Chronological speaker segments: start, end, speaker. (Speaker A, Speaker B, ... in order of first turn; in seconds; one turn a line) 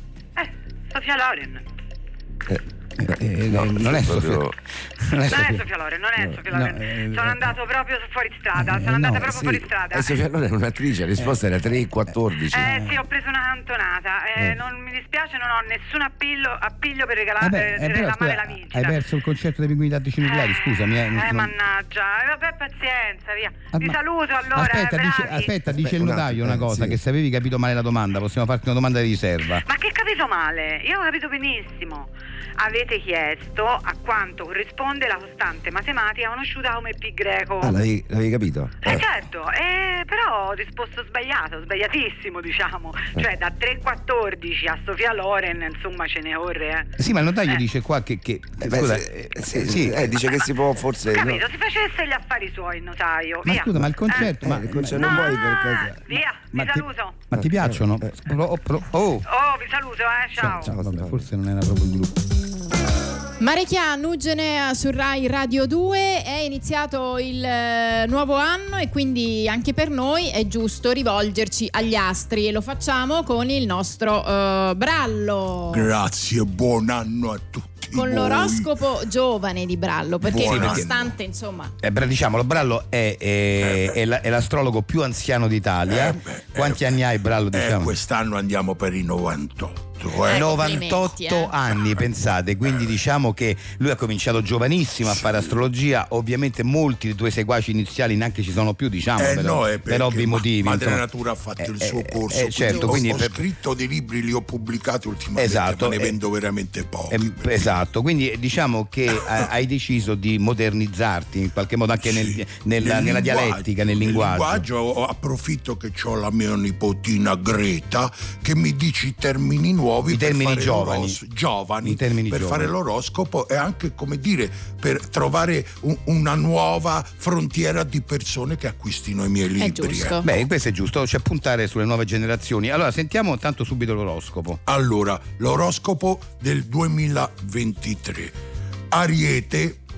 Speaker A: 0.4-1.6
Speaker B: 3.0-5.6
Speaker C: 3.1-4.5
Speaker A: 5.3-10.2
Speaker B: 6.5-7.6
Speaker B: 8.6-9.4
Speaker C: 9.3-12.7
Speaker B: 12.1-12.9
Speaker A: 12.5-19.0
Speaker B: 17.4-21.5
Speaker A: 20.2-25.5
Speaker B: 23.7-24.0
Speaker B: 24.5-29.6
Speaker C: 25.7-27.0
Speaker A: 29.6-37.8
Speaker C: 37.6-39.0
Speaker A: 38.8-46.9
Speaker B: 47.0-50.1
Speaker C: 48.6-51.4
Speaker A: 51.1-54.3
Speaker B: 53.4-55.3
Speaker C: 54.1-56.0
Speaker A: 55.0-57.2
Speaker B: 56.5-59.3
Speaker C: 57.4-57.8
Speaker A: 59.3-60.7
Speaker B: 60.4-62.2
Speaker C: 60.5-61.2
Speaker D: 63.4-75.9
Speaker E: 75.7-78.7
Speaker D: 77.9-81.7
Speaker E: 80.2-81.1
Speaker B: 80.3-80.9
Speaker B: 81.8-88.0
Speaker E: 85.9-86.9
Speaker E: 87.5-90.5
Speaker B: 90.3-101.0
Speaker D: 90.3-91.5
Speaker E: 99.2-107.5
Speaker B: 101.6-103.4
Speaker D: 102.6-103.0
Speaker B: 105.4-106.2
Speaker B: 107.1-114.7
Speaker E: 112.0-130.2
Speaker B: 120.1-121.2
Speaker B: 121.8-122.7
Speaker D: 129.6-130.3
Speaker B: 130.2-134.6
Speaker E: 134.7-138.3
Speaker E: 138.9-139.8